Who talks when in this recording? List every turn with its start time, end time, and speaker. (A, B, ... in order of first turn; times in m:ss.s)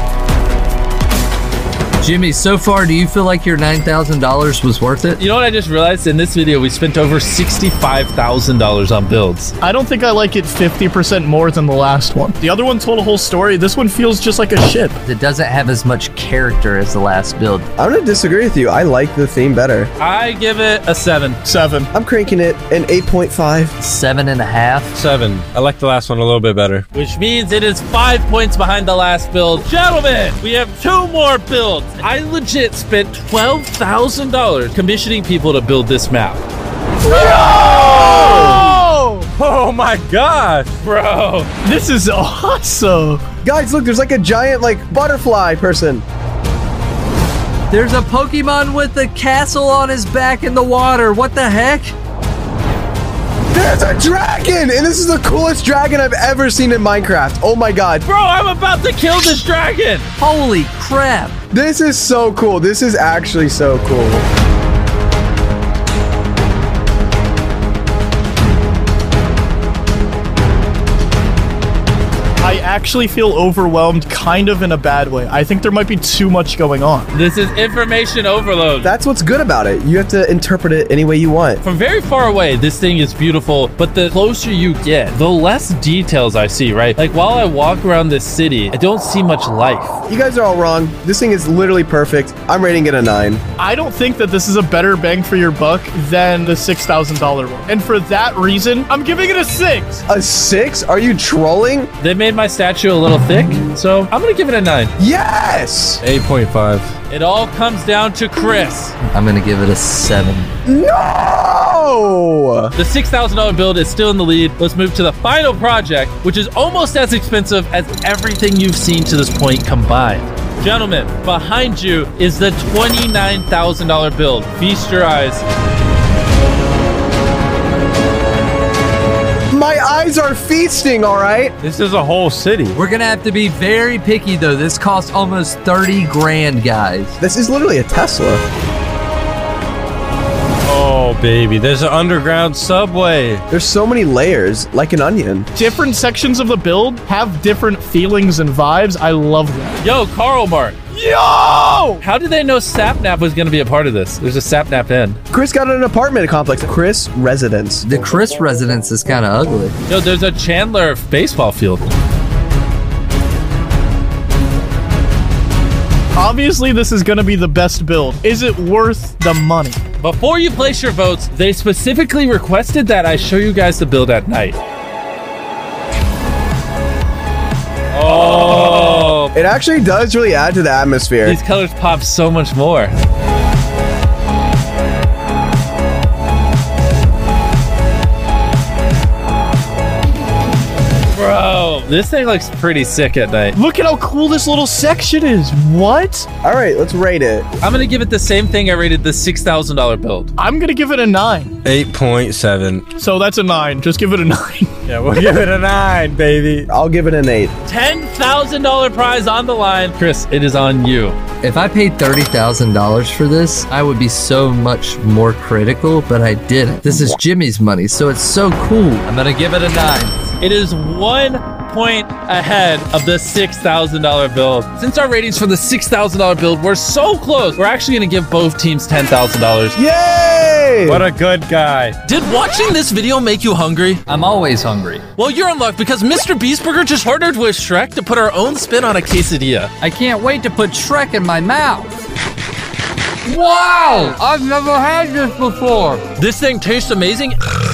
0:02.0-0:05.2 A
0:05.2-0:09.5 B
0:09.6-0:15.0 C
0:15.0-0:17.7 A
0:17.8-0:19.9 D
0:20.0-0:21.4 B
0:21.4-0:21.9 C
0:21.9-0:23.7 D
0:23.8-0:24.9 A
0:24.9-0:26.8 E
0:26.9-0:36.4 B
0:37.0-0:39.3 C
0:37.1-0:38.7 B
0:37.5-0:38.6 E
0:39.4-0:40.8 E
0:40.8-0:41.5 B
0:41.6-0:43.2 C
0:43.4-0:46.0 D
0:47.7-0:51.9 A
0:53.5-0:58.0 D
0:58.0-1:00.0 B
1:00.2-1:01.4 A
1:01.5-1:04.2 D
1:12.4-1:17.1 C
1:17.1-1:18.9 B
1:18.8-1:21.6 D
1:21.6-1:30.0 B
1:30.1-1:33.4 D
1:33.6-1:40.0 C
1:40.1-1:41.9 D
1:42.0-1:44.9 B
1:45.0-1:46.0 D
1:46.0-1:46.9 E
1:47.1-1:49.0 B
1:49.1-1:50.5 A
1:50.7-1:52.7 D
1:52.8-2:05.4 B
2:09.5-2:11.5 D
2:11.6-2:12.8 E
2:12.7-2:17.2 A
2:17.2-2:18.4 D
2:20.6-2:23.4 E
2:23.5-2:25.5 D
2:25.6-2:29.8 C
2:29.8-2:30.8 B
2:30.9-2:32.0 C
2:32.0-2:35.2 B
2:35.3-2:37.8 D
2:37.8-2:39.7 A
2:39.9-2:41.9 B
2:46.2-2:49.8 C
2:50.0-2:54.6 B
2:57.9-2:59.3 B
2:58.0-2:59.1 E
2:59.3-3:01.4 D
3:01.2-3:02.9 B
3:11.1-3:13.6 B
3:13.6-3:16.3 C
3:16.4-3:17.4 D
3:17.6-3:20.3 B
3:20.4-3:21.5 C
3:21.6-3:22.8 E
3:23.0-3:24.7 C
3:24.9-3:26.7 E
3:26.7-3:27.5 D
3:27.6-3:31.2 B
3:31.4-3:40.2 A
3:40.4-3:49.8 B
3:49.7-3:51.0 D
3:50.8-3:52.0 E
3:52.0-3:54.0 B
3:54.1-3:55.0 A
3:55.2-3:59.7 B
3:59.8-4:01.9 A
4:03.2-4:06.0 A
4:06.2-4:07.4 B